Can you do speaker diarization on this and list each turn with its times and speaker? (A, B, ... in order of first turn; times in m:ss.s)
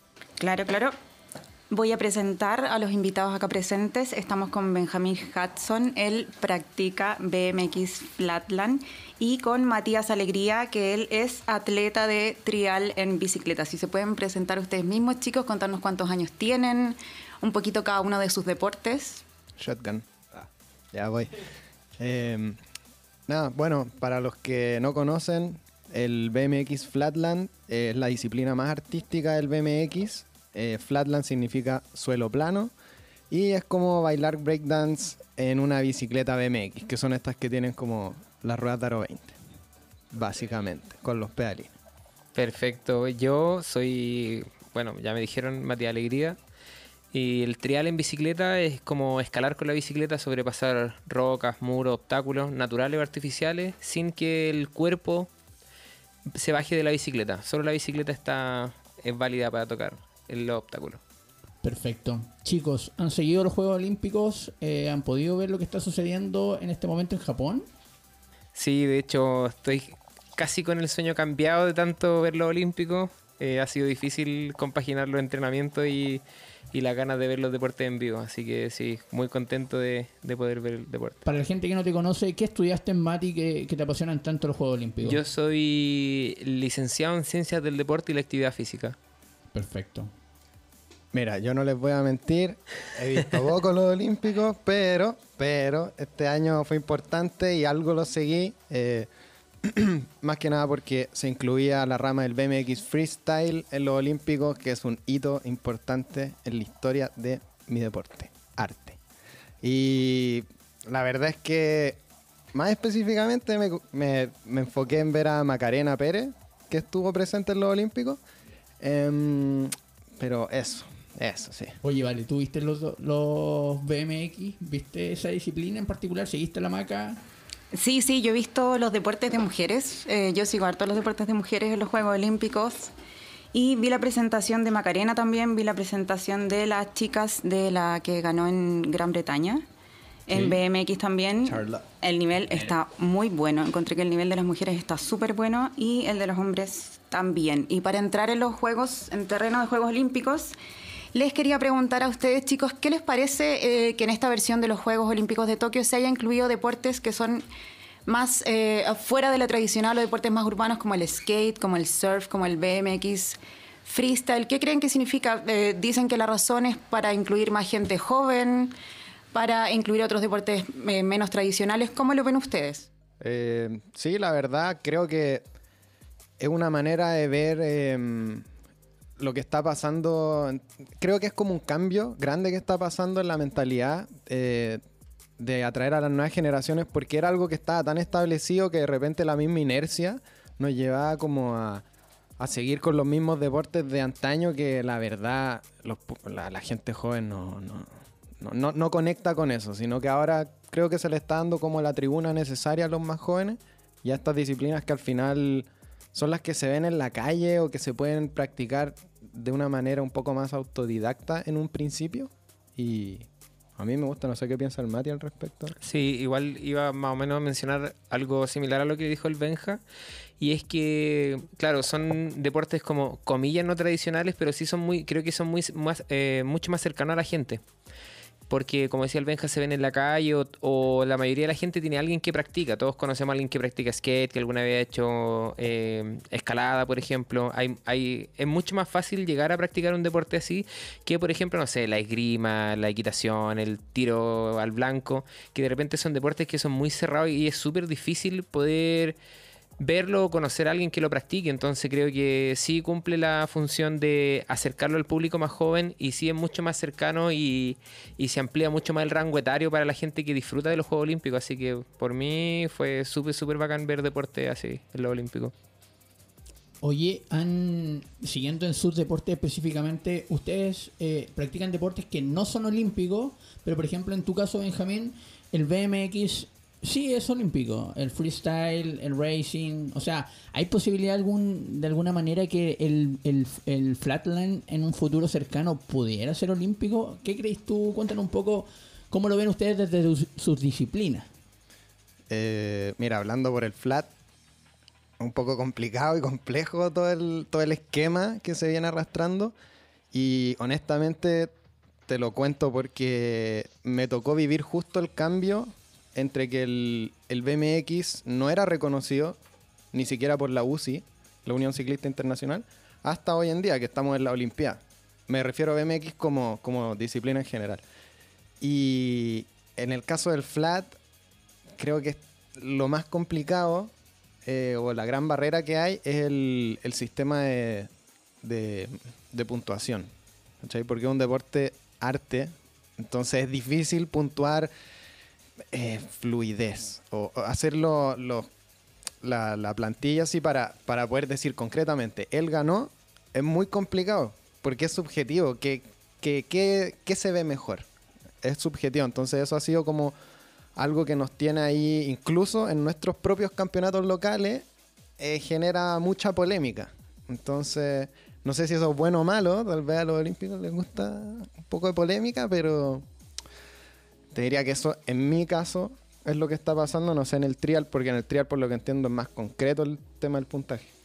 0:00.4-0:00.9 A
0:01.7-0:19.2 A
0:19.6-0:22.6 B
0:23.3-0:32.7 B
0:33.3-0:39.4 B
0:40.1-0:41.7 B
0:42.3-0:46.4 C
0:47.1-0:55.3 C
0:56.3-1:01.0 C
1:01.6-1:07.6 D
1:08.6-1:21.2 C
1:21.2-1:25.2 D
1:25.0-1:29.0 C
1:29.5-1:30.1 D
1:31.1-1:39.1 B
1:39.6-1:49.0 B
1:49.6-1:52.0 B
1:52.5-1:58.2 B
1:58.8-2:01.8 B
2:01.8-2:07.2 D
2:07.7-2:12.9 A
2:13.5-2:19.6 A
2:20.3-2:30.5 A
2:31.1-2:37.4 A
2:38.0-2:48.7 A
2:49.3-2:52.9 A
2:53.2-2:55.4 B
2:56.4-2:58.4 B
2:59.2-3:04.8 B
3:05.4-3:11.8 B
3:12.4-3:35.7 B
3:35.8-3:39.8 C
3:40.4-3:47.6 C
3:48.5-4:09.2 C
4:09.8-4:25.5 C
4:26.8-4:51.3 D
4:52.3-4:54.1 B
4:55.2-4:59.5 B
5:00.1-5:01.5 B
5:02.1-5:09.4 B
5:09.9-5:17.8 B
5:18.6-5:21.0 B
5:21.8-5:23.9 B
5:24.4-5:27.9 B
5:28.4-5:30.1 B
5:30.6-5:34.7 B
5:35.7-5:38.5 B
5:39.2-5:47.9 B
5:48.4-5:50.1 B
5:50.8-5:54.6 B
5:55.2-6:03.0 B
6:04.3-6:10.8 B